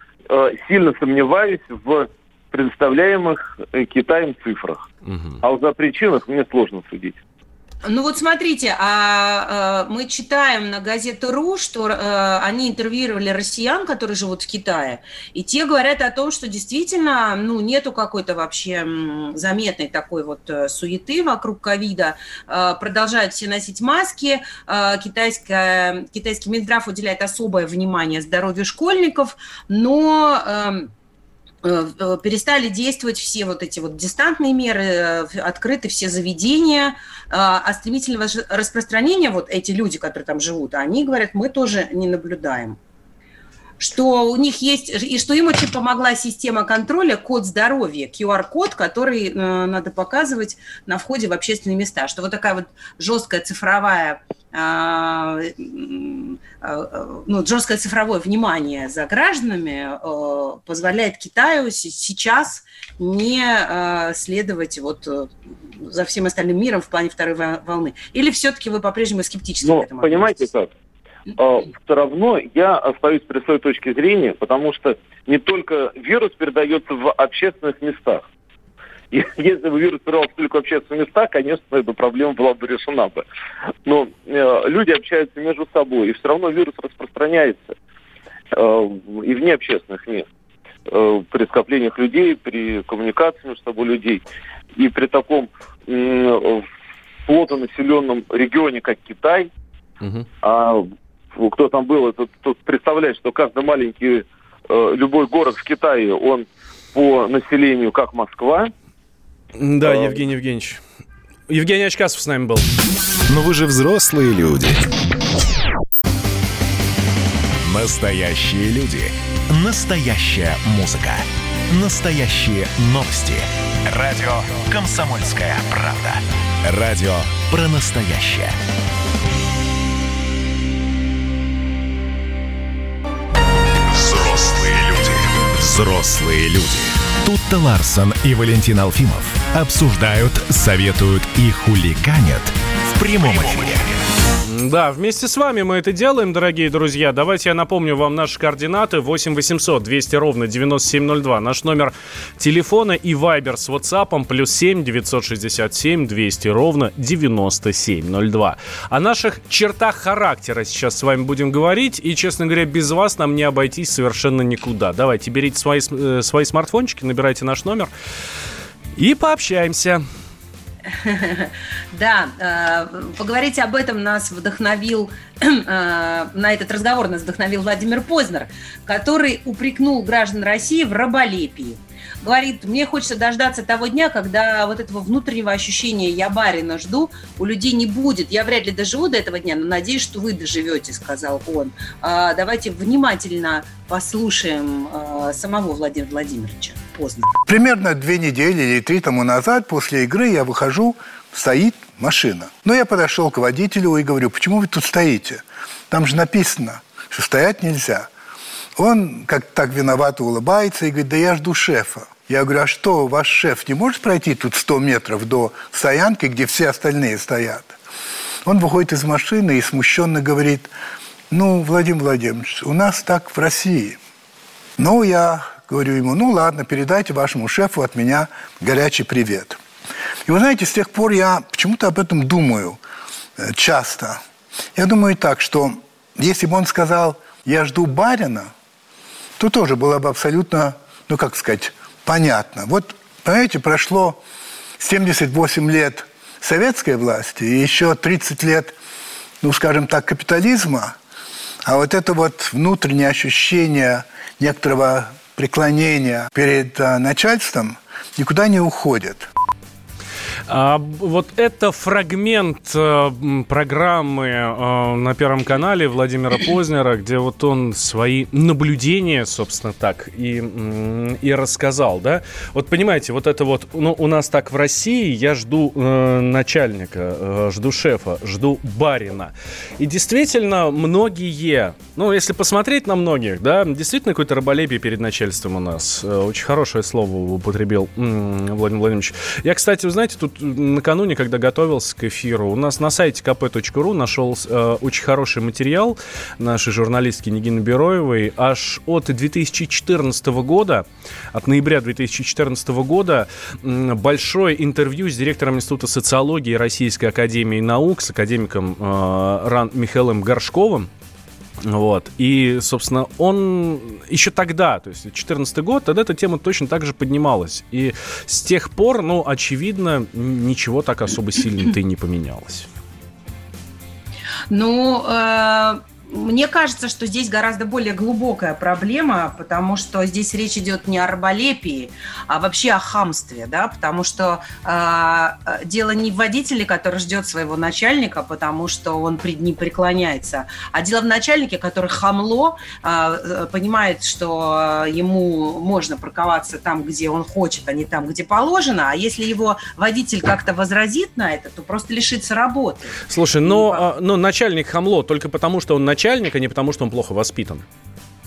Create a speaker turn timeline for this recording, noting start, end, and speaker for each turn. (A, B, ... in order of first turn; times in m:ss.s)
0:00.3-0:04.9 A
0:05.1-0:05.4 B
0:05.4-0:07.2 A
0:07.8-0:30.9 C
0:31.6-0:42.8 C
0:43.8-1:10.5 C
1:09.6-1:10.7 A
1:11.3-1:18.2 A
1:19.1-1:23.2 A
1:23.8-1:27.7 A
1:28.5-1:30.3 A
1:30.9-1:34.2 A
1:34.8-1:36.7 A
1:37.2-1:39.5 A
1:40.4-1:48.7 A
1:49.6-1:50.8 B
1:49.8-1:50.2 A
1:51.5-1:52.7 B
1:53.3-1:54.9 D
1:57.6-2:08.6 D
2:13.9-2:23.9 D
2:24.4-2:47.9 B
2:49.0-2:50.0 B
2:51.0-3:17.3 C
3:17.4-3:28.1 E
3:28.8-3:37.7 E
3:38.4-3:40.7 E
3:41.3-3:44.0 E
3:44.8-3:49.6 E
3:50.3-3:52.8 E
3:53.4-3:54.2 E
3:54.7-3:58.5 E
3:59.4-4:04.2 E
4:04.8-4:08.7 E
4:09.4-4:10.9 E
4:11.6-4:19.3 E
4:20.5-5:10.9 B
5:11.6-5:22.7 B
5:24.5-5:53.8 C
5:53.1-5:57.6 B